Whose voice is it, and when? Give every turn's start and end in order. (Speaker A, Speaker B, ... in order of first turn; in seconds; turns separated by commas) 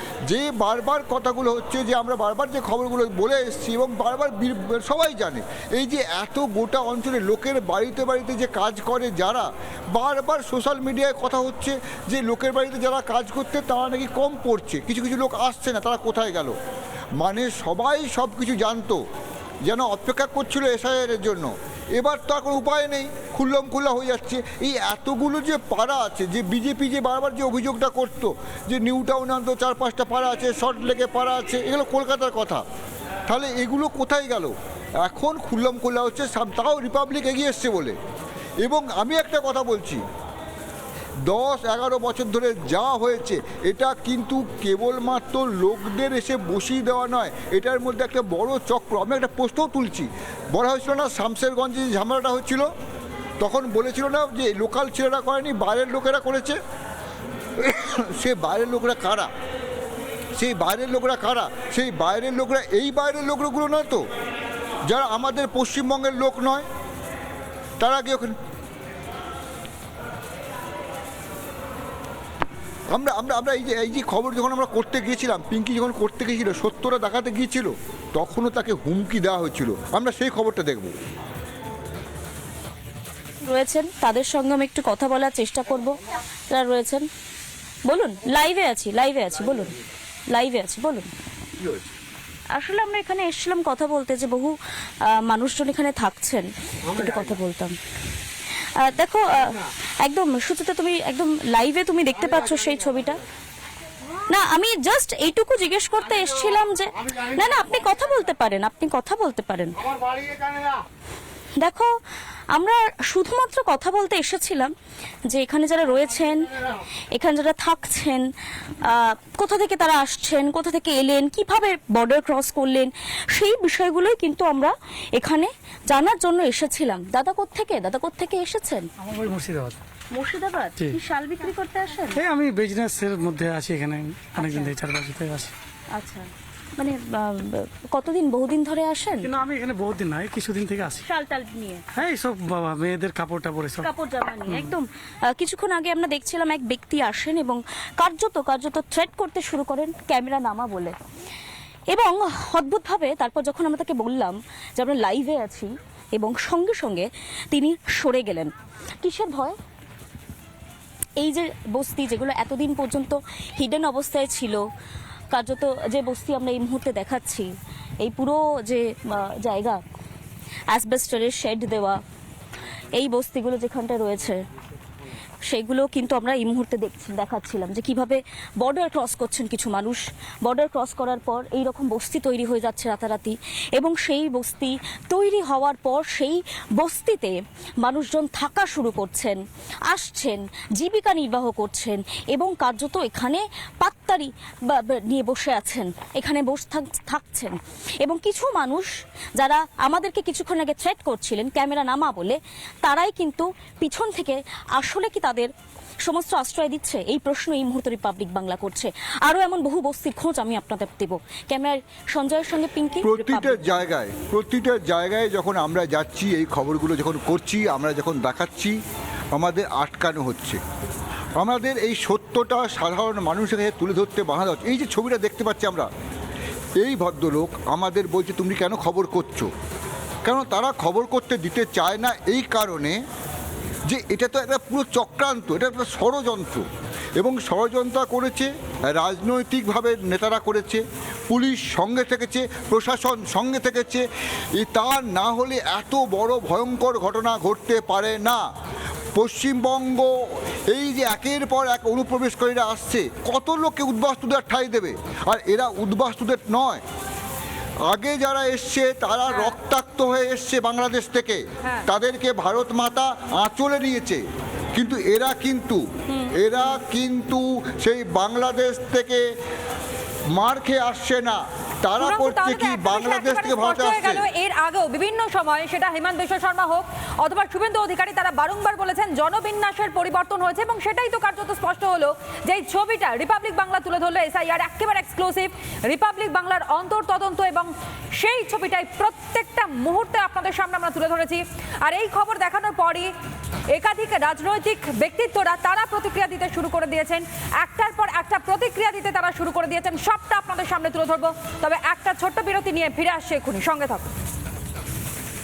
Speaker A: 0.3-16.5, Speaker A: 17.2-19.0, Speaker A: 19.7-32.6, Speaker A: 33.3-38.0, Speaker A: 38.6-40.0, Speaker A: 41.3-52.7, Speaker A: 53.4-56.6, Speaker A: 57.6-59.3, Speaker A: 60.4-64.0, Speaker A: 64.9-66.6, Speaker A: 67.8-68.3, Speaker A: 72.9-80.9, Speaker B: 83.4-86.0, Speaker B: 86.5-87.0, Speaker B: 87.8-89.8, Speaker B: 90.3-91.1, Speaker B: 92.5-97.8, Speaker B: 98.8-103.2, Speaker B: 104.3-109.8, Speaker B: 111.6-111.9, Speaker B: 112.5-114.7, Speaker B: 115.3-118.3, Speaker B: 118.8-128.9, Speaker C: 129.0-129.8, Speaker B: 130.1-132.2, Speaker C: 132.1-135.5, Speaker B: 135.9-139.3, Speaker C: 139.2-141.0, Speaker B: 141.0-141.8, Speaker C: 141.9-143.9, Speaker B: 143.8-150.9, Speaker B: 151.9-158.5, Speaker B: 159.0-159.6, Speaker B: 161.2-164.7, Speaker B: 165.3-169.8, Speaker B: 170.7-172.0, Speaker B: 172.9-174.4, Speaker B: 175.5-205.5, Speaker B: 206.0-213.8, Speaker A: 213.0-218.8, Speaker A: 219.3-220.6, Speaker A: 221.4-225.9, Speaker A: 226.8-229.5, Speaker A: 230.2-233.0, Speaker A: 233.9-236.6, Speaker A: 237.2-244.0, Speaker A: 244.6-248.4, Speaker A: 249.2-250.1, Speaker A: 250.7-256.8, Speaker A: 257.9-264.2, Speaker A: 264.7-265.8, Speaker A: 266.4-269.2, Speaker A: 270.3-274.2, Speaker D: 272.0-293.1, Speaker D: 293.7-304.1